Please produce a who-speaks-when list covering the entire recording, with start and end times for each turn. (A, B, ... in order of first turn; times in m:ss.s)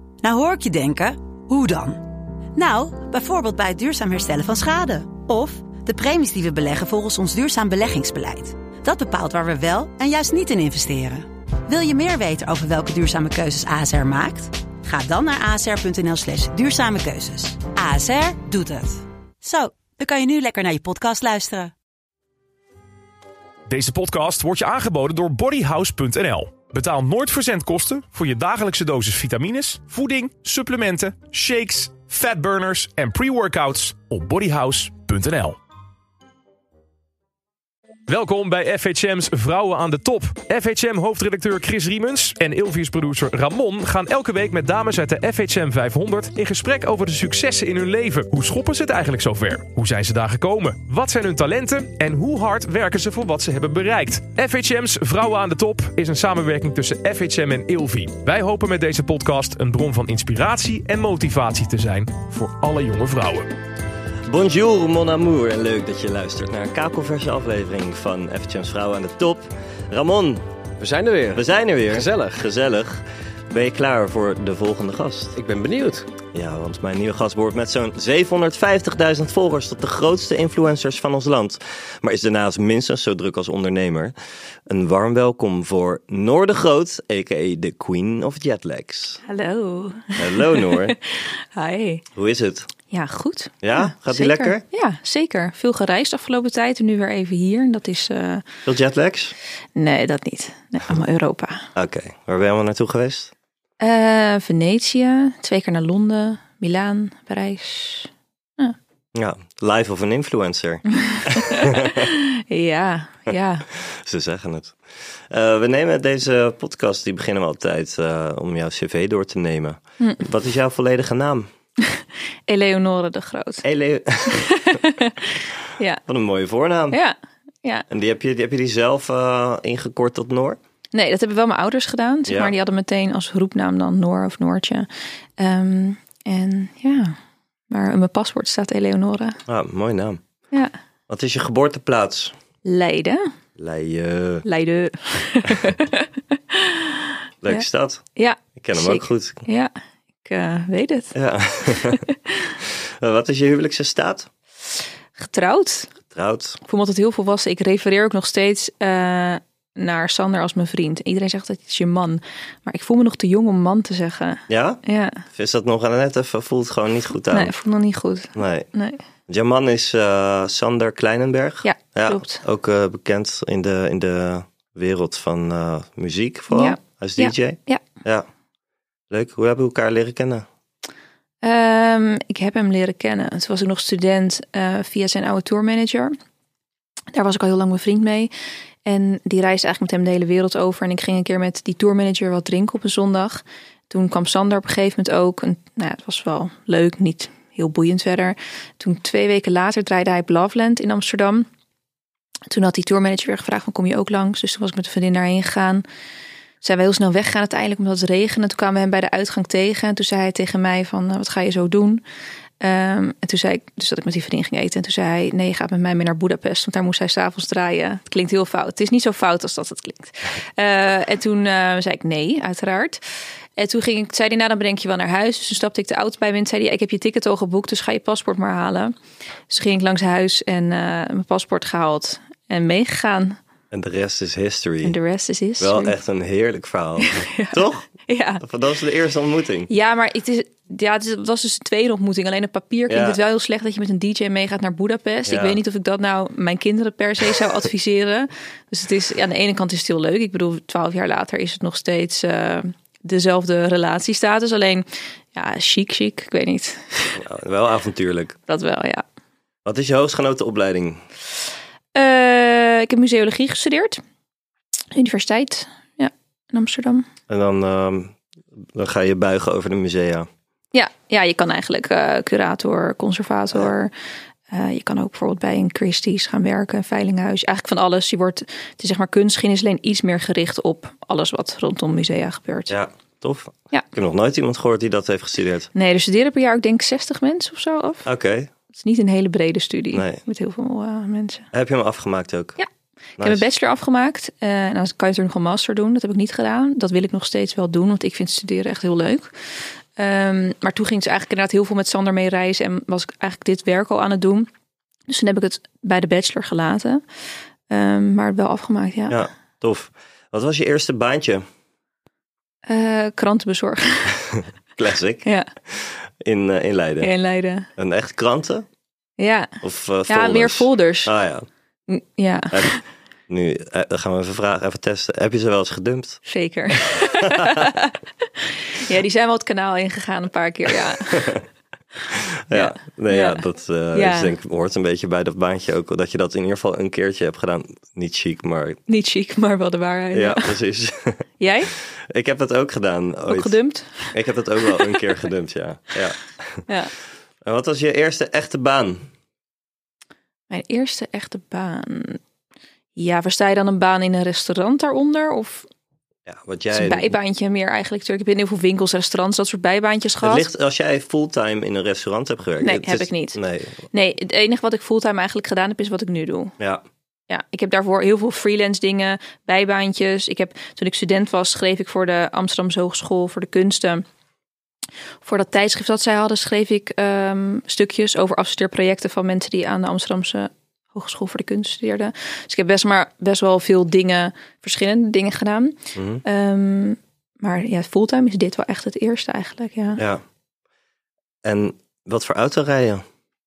0:00.2-0:02.0 A
0:02.6-0:21.7 A
0:23.7-0:35.6 B
0:38.1-1:03.5 B
1:04.3-1:10.4 C
1:10.8-1:12.5 D
1:11.3-1:15.4 C
1:15.4-1:16.0 D
1:16.3-1:24.1 C
1:24.7-1:29.2 C
1:29.2-1:32.0 E
1:30.2-1:31.0 C
1:32.2-1:32.7 C
1:32.9-1:38.5 E
1:33.6-1:34.6 C
1:38.7-1:39.3 C
1:39.8-1:41.7 E
1:41.8-1:43.3 C
1:43.8-1:48.8 E
1:49.1-1:52.1 C
1:50.9-1:53.7 E
1:53.8-1:54.8 C
1:55.3-2:01.5 C
2:01.9-2:03.6 E
2:03.6-2:04.5 C
2:04.2-2:06.0 E
2:06.1-2:07.0 C
2:06.9-2:07.9 E
2:07.9-2:10.6 C
2:10.9-2:17.2 E
2:12.3-2:12.5 C
2:17.7-2:19.4 E
2:19.5-2:20.2 C
2:21.1-2:22.3 C
2:22.6-2:23.2 E
2:23.6-2:24.4 C
2:24.4-2:29.7 E
2:27.4-2:29.4 C
2:30.2-2:31.2 E
2:31.1-2:32.0 C
2:31.8-2:32.3 E
2:32.6-2:34.3 C
2:35.2-2:35.9 E
2:36.1-2:36.6 C
2:36.6-2:45.2 E
2:44.5-2:47.5 C
2:47.3-2:49.0 E
2:48.4-2:48.7 C
2:49.3-2:58.3 C
2:51.6-2:52.4 E
2:56.5-2:57.8 E
2:59.1-3:00.5 C
3:01.4-3:06.2 E
3:07.1-3:08.3 E
3:08.9-3:21.5 E
3:22.5-3:25.8 E
3:26.6-3:32.0 E
3:32.6-3:43.0 E
3:43.6-3:48.9 E
3:49.5-3:53.4 E
3:53.7-3:55.0 C
3:54.8-3:56.0 E
3:55.6-3:57.9 C
3:57.0-3:58.4 E
3:58.4-3:59.7 C
3:59.7-4:17.2 E
4:02.9-4:03.2 C
4:05.3-4:05.6 C
4:17.2-4:18.4 C
4:18.5-4:19.0 E
4:19.6-4:21.0 C
4:22.0-4:24.0 E
4:24.9-4:27.1 E
4:27.3-4:28.2 C
4:28.7-4:30.3 C
4:30.7-4:33.9 E
4:34.5-4:42.7 E
4:42.7-4:45.7 C
4:45.7-4:48.1 E
4:48.1-4:48.5 C
4:48.7-4:51.5 E
4:49.9-4:50.2 C
4:51.5-4:52.6 C
4:53.2-4:53.4 C
4:53.2-4:59.3 E
5:00.0-5:04.5 E
5:05.1-5:07.0 E
5:07.7-5:09.2 E
5:09.1-5:11.4 C
5:12.7-5:14.3 E
5:14.3-5:17.1 C
5:17.0-5:17.7 E
5:17.8-5:18.7 C
5:19.2-5:19.6 E
5:19.6-5:21.5 C
5:20.1-5:21.1 E
5:21.9-5:22.8 E
5:23.3-5:26.2 C
5:26.3-5:31.4 E
5:27.0-5:27.6 C
5:31.0-5:31.4 C
5:32.1-5:38.8 C
5:32.5-5:33.4 E
5:33.9-5:34.4 E
5:38.9-5:40.5 E
5:40.1-5:41.2 C
5:41.4-5:41.7 E
5:42.1-5:43.6 C
5:43.3-5:44.2 E
5:44.1-5:46.6 C
5:46.7-5:46.9 E
5:47.4-5:49.1 C
5:50.5-5:52.2 E
5:53.0-5:55.7 E
5:56.3-5:57.2 C
5:56.7-6:00.5 E
6:00.2-6:03.8 C
6:02.6-6:03.4 E
6:03.9-6:06.5 E
6:07.3-6:14.0 E
6:15.2-6:30.0 E
6:26.0-6:26.2 C
6:31.4-6:33.0 C